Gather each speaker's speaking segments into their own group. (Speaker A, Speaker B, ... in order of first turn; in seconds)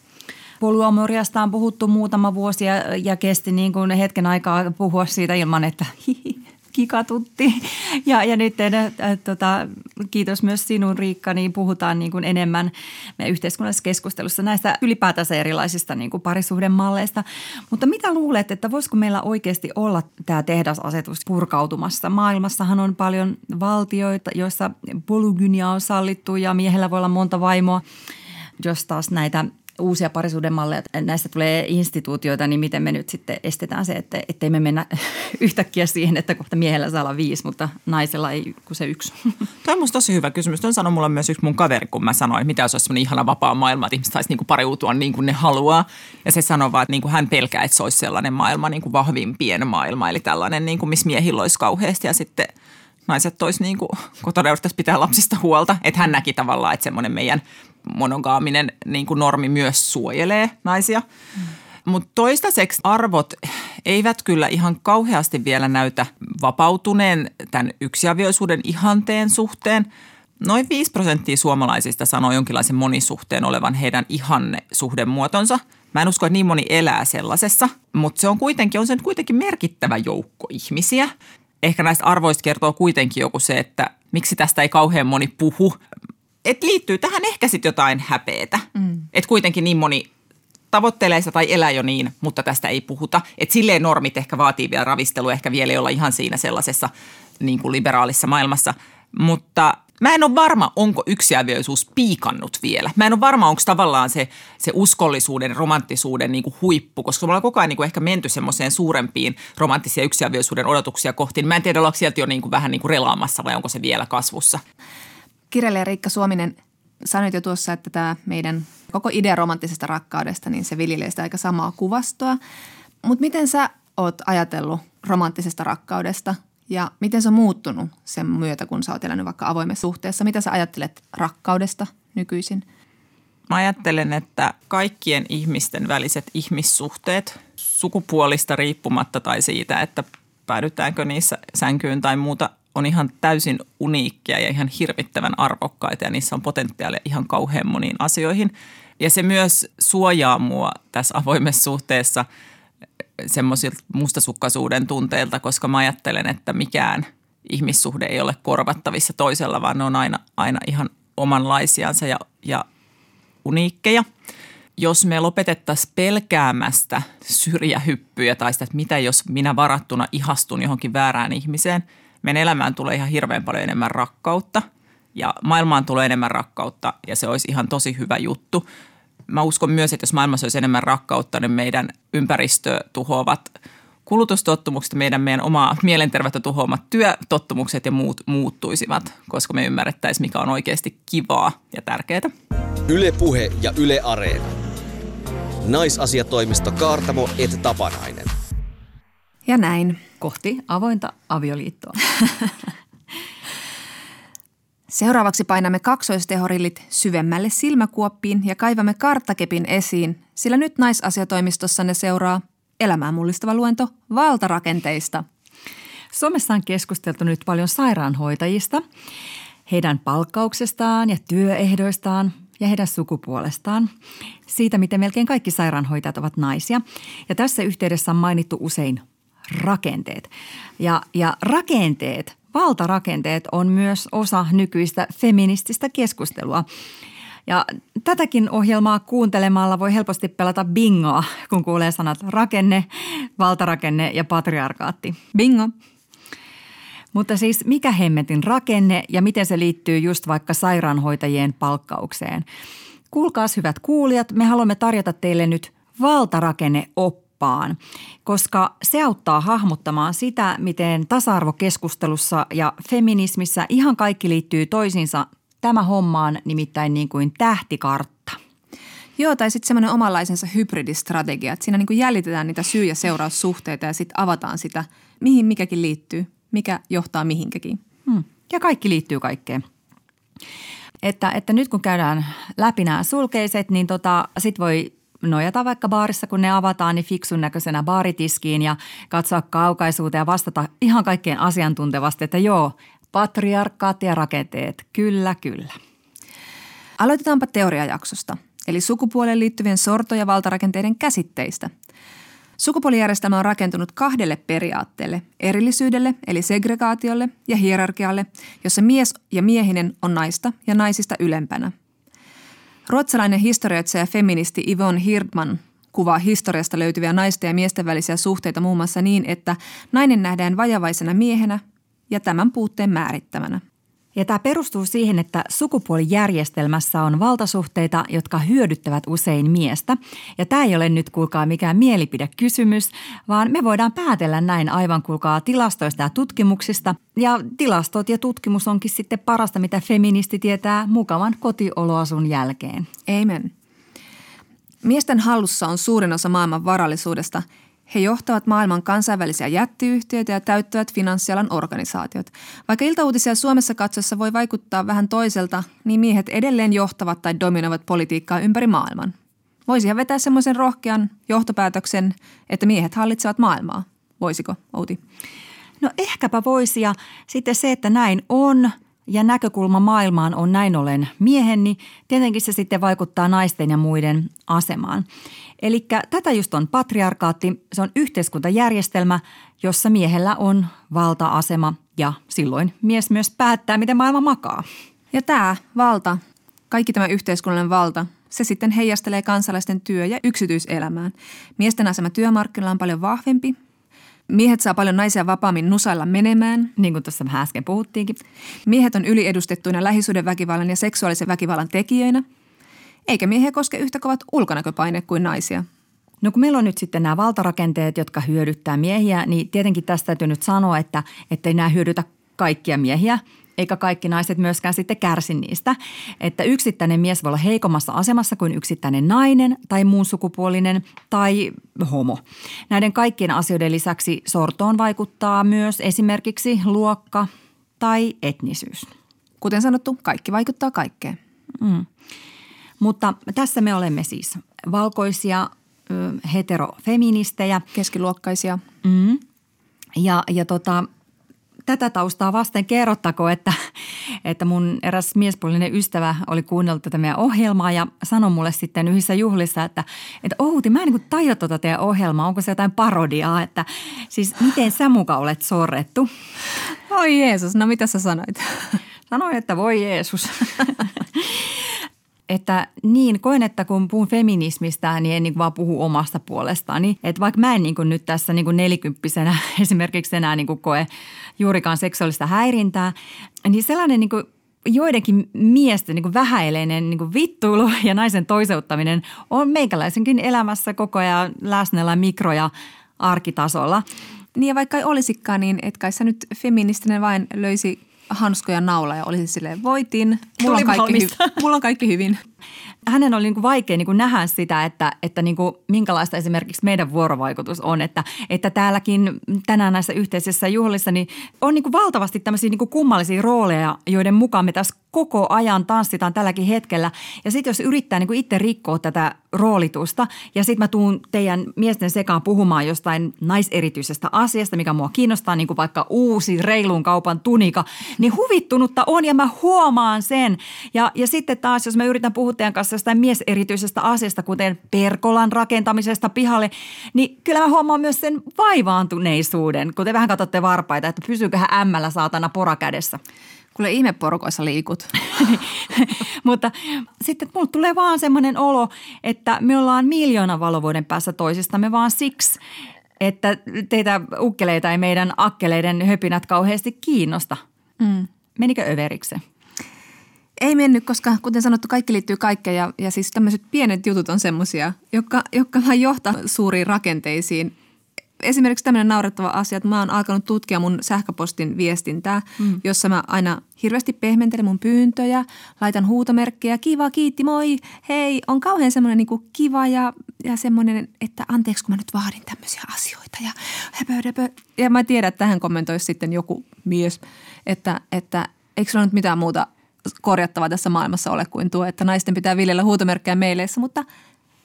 Speaker A: 0.6-27.8, 28.6-39.3, 200.2-202.6, 216.1-218.8, 219.7-223.9, 224.5-236.6, 237.5-245.2, 247.1-252.4, 253.1-268.4, 278.1-279.6, 281.0-295.8, 324.1-342.9, 365.8-375.1, 375.6-384.6, 396.8-398.2, 406.2-427.3, 427.8-428.9, 431.6-431.9, 432.8-437.6, 438.8-439.2, 439.9-440.9, 441.7-456.1, 459.1-461.6, 462.3-470.9, 471.4-472.9, 473.4-483.8, 490.4-491.3, 492.9-533.0, 535.1-542.4, 543.0-547.4, 548.4-549.2
Speaker B: 39.6-52.5, 53.1-61.0, 61.9-69.9, 70.4-81.1, 81.6-85.8, 86.4-90.1, 90.7-114.6, 133.5-152.2, 153.2-162.6, 163.4-164.1, 164.8-178.6, 179.3-183.5, 184.1-192.3
Speaker C: 115.5-122.4, 123.0-132.6, 199.4-200.0, 204.9-215.2, 245.3-245.7, 269.2-277.8, 297.0-301.7, 302.6-311.7, 312.9-323.6, 343.1-343.5, 344.8-359.1, 359.7-365.0, 385.1-386.2, 386.7-393.6, 394.3-396.7, 398.7-402.2, 403.1-405.6, 429.4-431.2, 437.7-438.6, 456.9-458.8, 484.4-492.2, 533.5-534.9, 547.8-548.1, 550.4-557.5, 558.2-579.5, 580.0-583.8
Speaker D: 192.9-194.6, 195.6-198.3